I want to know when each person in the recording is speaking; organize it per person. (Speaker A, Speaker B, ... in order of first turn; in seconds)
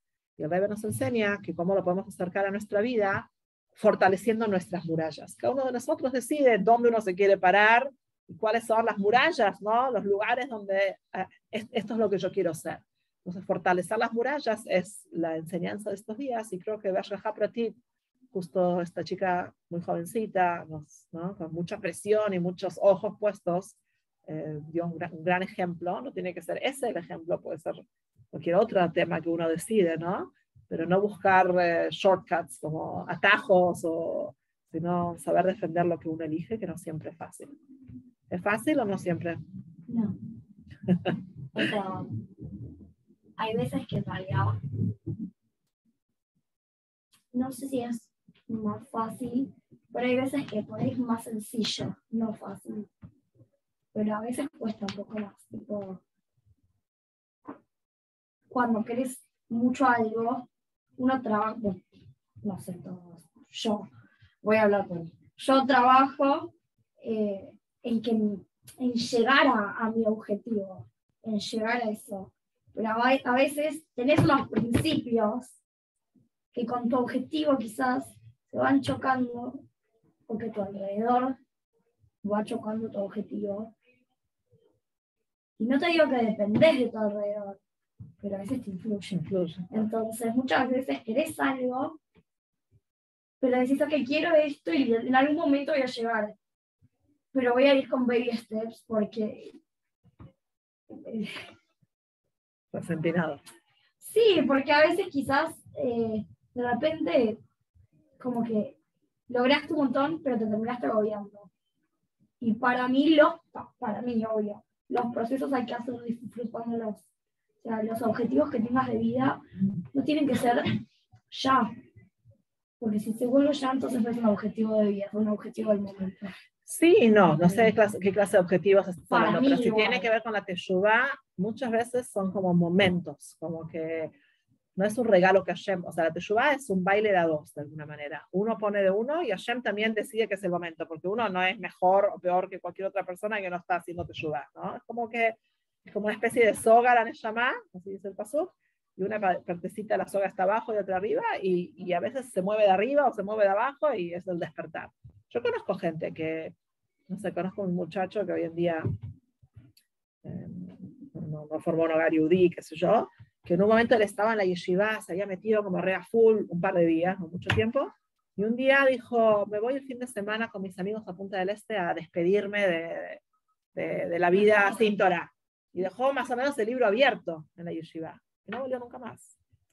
Speaker A: 0.4-17.8, 18.3-23.8, 24.3-37.5, 38.3-39.4, 89.1-89.7, 102.7-103.4, 126.7-134.1, 134.8-156.5, 157.1-158.9, 160.2-173.2, 173.7-179.3
Speaker B: 39.9-40.2, 41.5-42.1, 43.4-44.6, 47.3-52.9, 53.9-56.0, 58.5-61.8, 62.4-63.9, 64.4-75.6, 76.5-79.6, 80.3-81.4, 82.2-83.7, 85.6-87.6, 88.2-92.0, 93.4-96.3, 97.3-99.6, 100.9-101.5, 104.0-107.4, 108.2-108.8, 109.3-111.5, 112.4-117.0, 117.6-119.4, 119.9-120.8, 121.3-121.7, 122.8-126.3, 129.1-130.1